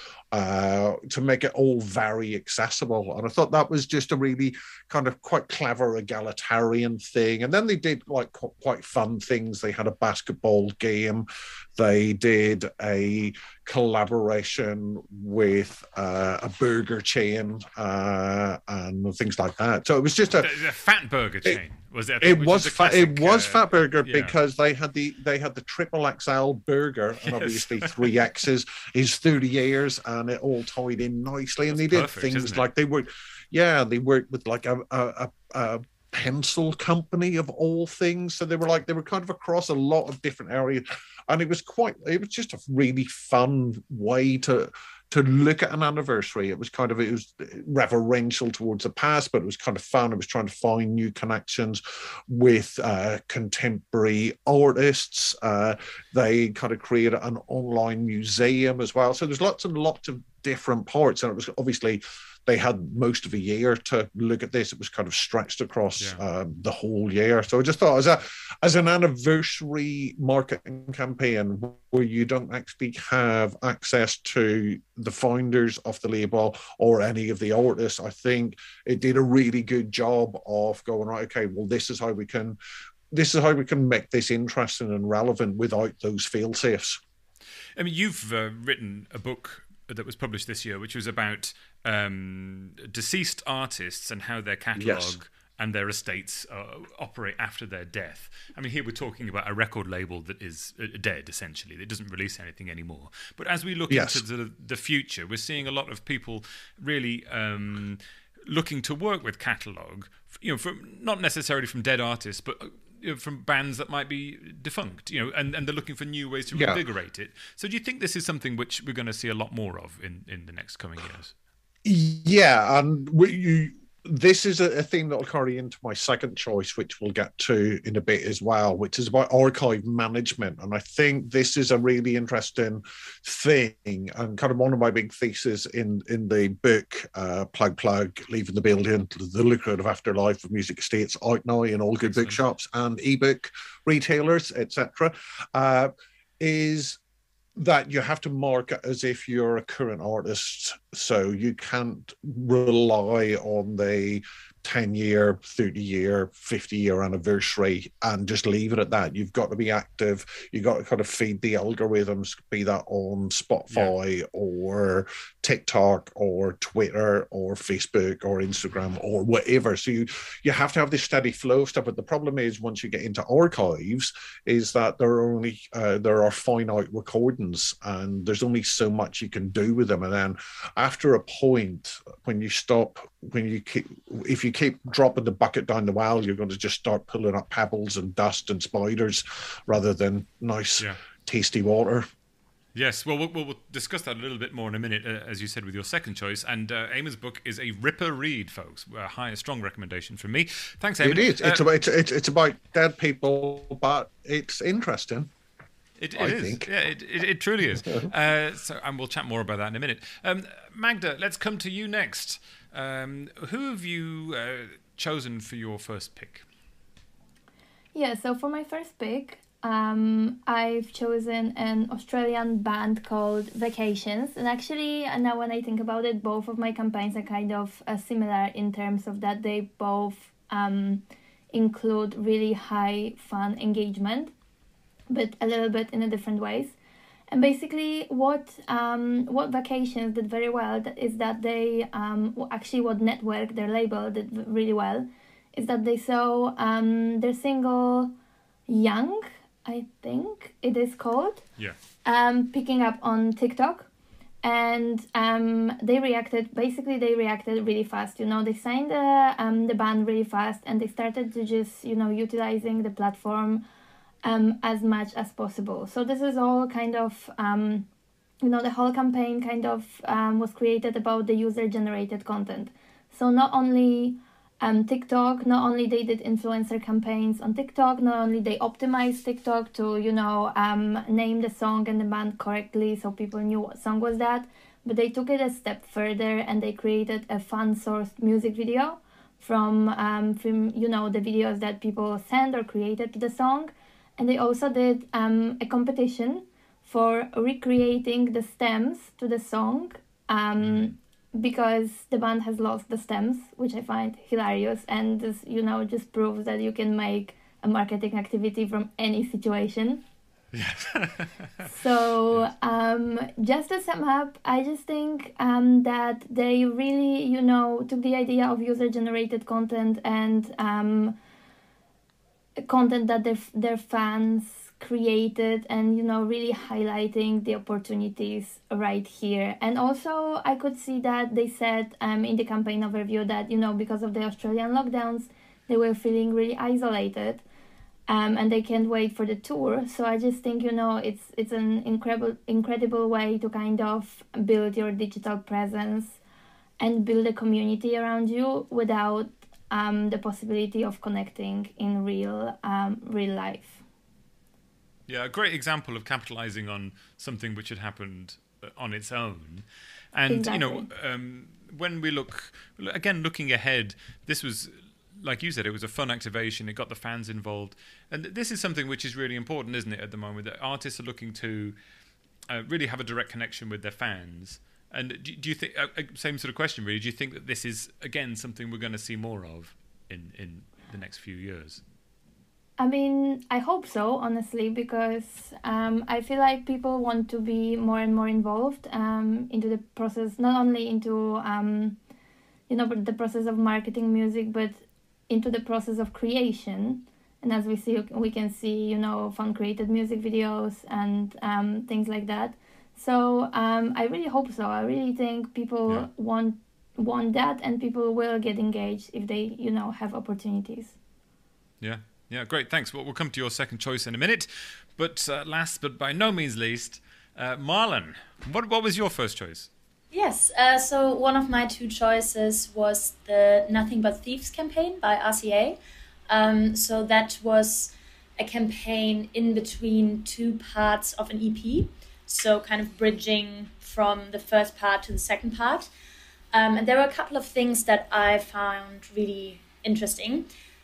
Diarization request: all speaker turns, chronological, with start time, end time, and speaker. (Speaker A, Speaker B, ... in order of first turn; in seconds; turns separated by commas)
Speaker A: 0.3-20.5, Speaker B: 20.3-24.3, Speaker A: 22.2-82.6, Speaker B: 27.3-28.1, Speaker B: 31.7-32.6, Speaker A: 83.1-87.0, Speaker B: 87.8-121.3, Speaker A: 94.8-95.2, Speaker A: 103.9-104.2, Speaker A: 116.5-116.8, Speaker A: 121.8-147.0, Speaker B: 142.1-142.4, Speaker A: 147.5-192.1, Speaker B: 192.7-201.7, Speaker A: 201.0-205.3, Speaker B: 206.0-216.4, Speaker A: 206.2-206.7, Speaker C: 217.9-234.3, Speaker C: 235.1-236.7, Speaker C: 237.3-248.1, Speaker C: 248.7-251.4, Speaker C: 252.0-253.9, Speaker C: 254.4-263.6, Speaker C: 264.2-267.9, Speaker C: 268.4-310.0, Speaker B: 300.6-300.9, Speaker B: 310.5-311.7, Speaker C: 311.6-321.1, Speaker C: 322.6-337.4, Speaker C: 338.1-346.2, Speaker C: 346.8-353.8, Speaker B: 355.1-371.8, Speaker C: 360.3-360.9, Speaker B: 372.5-381.8, Speaker C: 382.8-392.0, Speaker C: 392.7-410.9, Speaker B: 411.8-419.7, Speaker D: 420.1-425.8, Speaker D: 426.3-435.9, Speaker D: 436.5-440.5